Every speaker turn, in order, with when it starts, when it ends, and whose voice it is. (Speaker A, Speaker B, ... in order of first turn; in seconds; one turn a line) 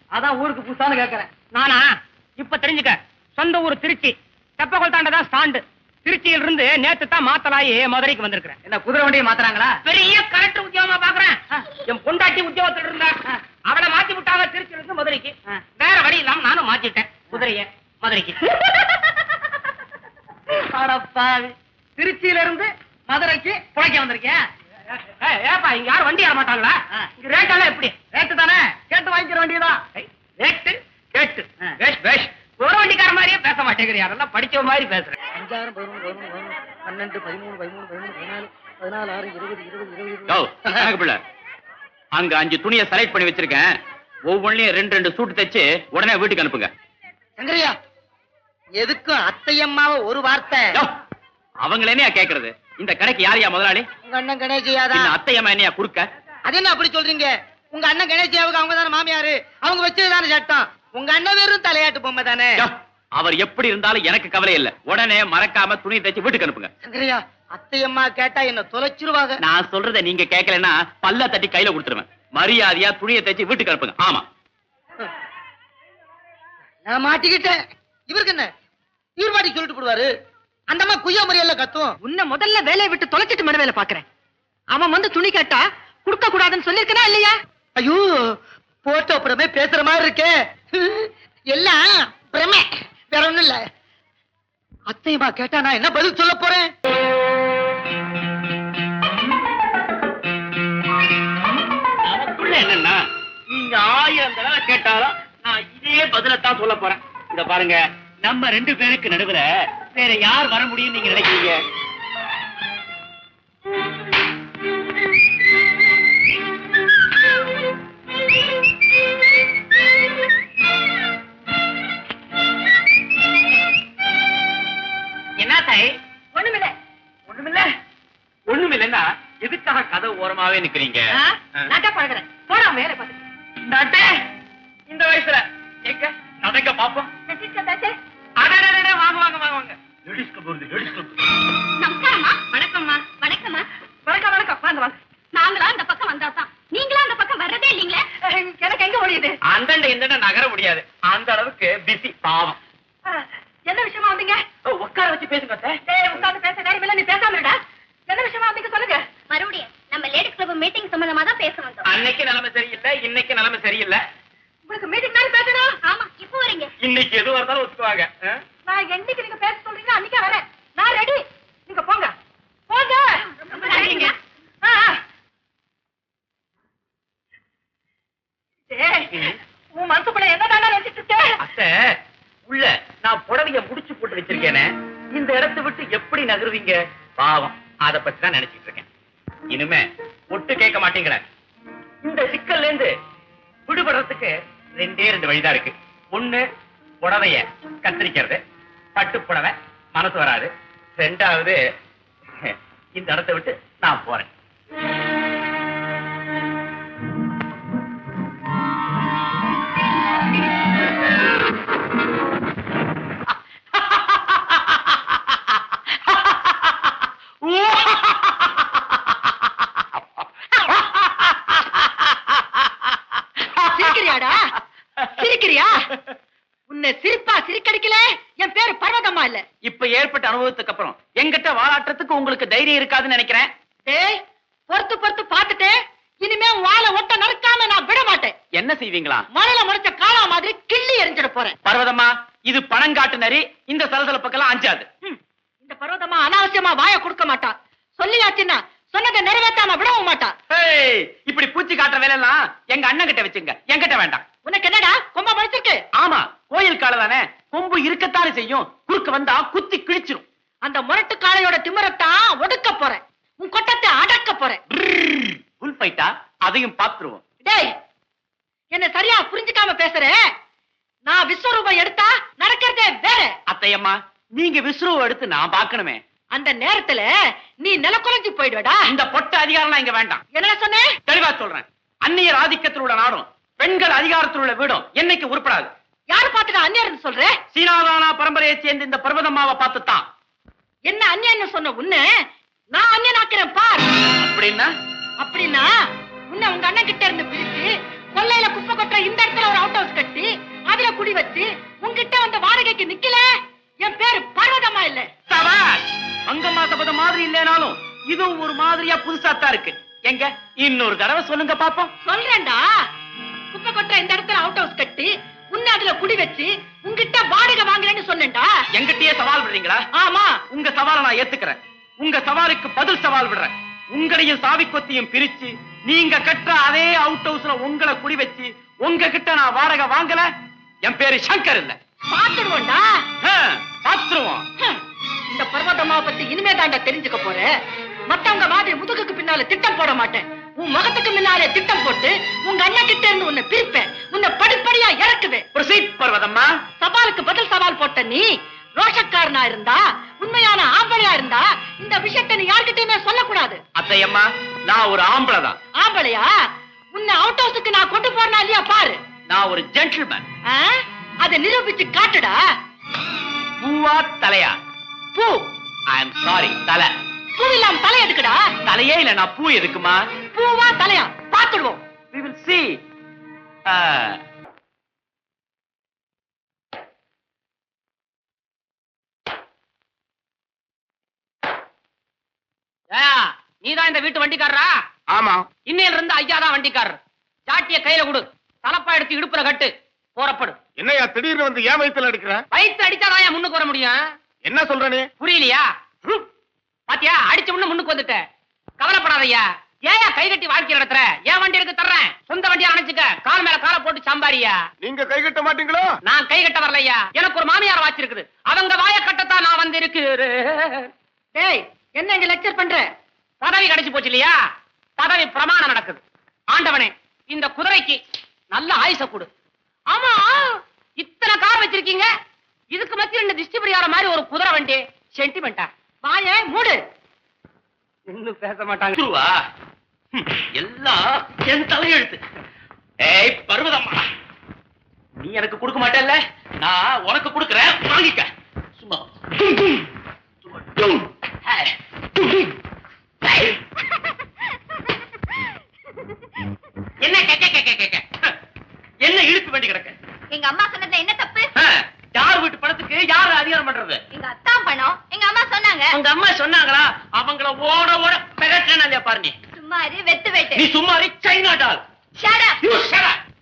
Speaker A: 1.5-8.6
Speaker A: 9.8-18.4
Speaker A: 25.2-28.2
Speaker A: 30.4-35.1
Speaker B: 35.4-40.9
Speaker C: 40.3-41.2
Speaker C: 42.1-43.7
Speaker C: 44.3-46.7
Speaker B: 47.4-47.8
Speaker B: 48.8-50.8
Speaker C: 51.6-53.9
Speaker B: 54.1-55.2
Speaker C: 54.9-56.1
Speaker B: 56.5-62.6
Speaker C: 62.6-66.7
Speaker B: 66.8-69.4
Speaker C: 69.4-74.3
Speaker B: 76.8-77.6
Speaker B: 78.1-78.5
Speaker B: 79.2-80.1
Speaker B: 80.7-81.9
Speaker D: 82.0-84.0
Speaker D: 84.7-87.3
Speaker B: 87.8-88.1
Speaker B: 88.8-93.6
Speaker B: 94.9-96.7
Speaker C: 102.0-111.6
Speaker C: 125.4-125.9
Speaker D: 126.3-126.7
Speaker C: 127.3-127.7
Speaker C: 128.5-131.7
Speaker D: 131.1-133.2
Speaker C: 133.7-134.1
Speaker C: 134.9-137.1
Speaker D: 137.3-137.9
Speaker C: 138.4-141.2
Speaker E: 141.8-143.7
Speaker D: 144.1-145.0
Speaker E: 145.3-148.0
Speaker D: 148.3-149.4
Speaker C: 149.5-152.6
Speaker D: 153.1-154.4
Speaker C: 154.7-155.8
Speaker D: 155.9-157.6
Speaker D: 158.1-159.0
Speaker E: 159.3-161.9
Speaker C: 161.9-164.0
Speaker D: 164.7-165.8
Speaker E: 165.8-166.7
Speaker C: 166.8-168.4
Speaker D: 168.7-172.1
Speaker D: 172.7-175.0
Speaker D: 178.7-179.1
Speaker D: 179.8-181.3
Speaker C: 181.4-181.7
Speaker C: 182.5-188.9
Speaker C: 189.5-191.2
Speaker C: 192.0-192.9
Speaker C: 193.7-196.4
Speaker C: 197.0-198.4
Speaker C: 198.9-201.6
Speaker C: 202.4-204.3
Speaker C: 213.8-214.8
Speaker C: 216.1-216.6
Speaker C: 217.4-218.7
Speaker C: 220.6-223.7
Speaker D: 223.7-224.5
Speaker D: 225.1-225.7
Speaker D: 226.7-229.4
Speaker C: 229.6-233.5
Speaker D: 233.9-234.2
Speaker D: 234.7-238.3
Speaker C: 238.6-239.3
Speaker D: 239.3-241.6
Speaker C: 241.7-244.9
Speaker D: 245.1-250.3
Speaker C: 250.5-254.2
Speaker D: 254.4-255.8
Speaker C: 256.0-260.2
Speaker D: 260.6-264.6
Speaker C: 264.7-267.2
Speaker D: 267.4-267.7
Speaker D: 268.7-270.2
Speaker D: 271.1-273.3
Speaker C: 273.5-276.0
Speaker D: 276.3-277.1
Speaker D: 277.6-278.8
Speaker C: 278.9-280.2
Speaker D: 280.3-280.9
Speaker C: 281.1-285.7
Speaker D: 286.1-287.3
Speaker C: 287.5-290.1
Speaker D: 290.9-292.0
Speaker D: 292.7-293.9
Speaker C: 294.2-294.7
Speaker D: 295.2-295.7
Speaker D: 296.3-303.3
Speaker D: 303.8-305.1
Speaker C: 305.3-311.9
Speaker D: 312.0-312.6
Speaker D: 313.5-318.5
Speaker C: 318.8-319.8
Speaker D: 319.9-320.4
Speaker C: 320.5-330.3
Speaker C: 330.9-331.8
Speaker D: 332.1-332.8
Speaker C: 333.2-334.4
Speaker D: 335.3-337.5
Speaker D: 338.1-345.5
Speaker C: 345.5-346.5
Speaker D: 346.8-348.2
Speaker D: 348.8-353.6
Speaker C: 353.8-355.6
Speaker D: 355.8-356.3
Speaker D: 356.9-359.0
Speaker C: 359.3-360.2
Speaker D: 360.5-362.4
Speaker C: 363.6-364.5
Speaker D: 365.1-365.4
Speaker C: 365.9-366.9
Speaker D: 367.4-368.4
Speaker C: 368.6-370.0
Speaker D: 370.3-371.8
Speaker C: 372.1-372.7
Speaker C: 373.7-374.2
Speaker A: 382.9-384.7
Speaker F: 385.1-385.5
Speaker A: 385.7-390.6
Speaker F: 390.8-392.4
Speaker A: 392.5-394.0
Speaker F: 394.4-395.1
Speaker A: 395.2-395.7
Speaker A: 396.9-398.2
Speaker A: 398.8-404.6
Speaker F: 404.8-405.9
Speaker A: 406.1-410.9
Speaker D: 411.4-412.9
Speaker A: 413.4-414.4
Speaker A: 415.0-416.0
Speaker A: 416.5-418.0
Speaker A: 418.5-419.3
Speaker D: 419.9-420.6
Speaker A: 421.0-422.1
Speaker A: 422.7-425.7
Speaker D: 426.0-426.8
Speaker A: 428.1-429.0
Speaker C: 429.0-429.3
Speaker C: 430.1-432.2
Speaker C: 433.0-434.1
Speaker C: 435.2-439.9
Speaker C: 440.6-442.5
Speaker C: 443.2-443.6
Speaker C: 447.0-448.1
Speaker C: 449.0-450.0
Speaker E: 450.3-451.5
Speaker C: 451.6-454.0
Speaker E: 454.1-455.9
Speaker C: 455.9-459.4
Speaker E: 459.6-460.6
Speaker C: 460.5-461.8
Speaker E: 462.2-462.6
Speaker C: 462.6-463.2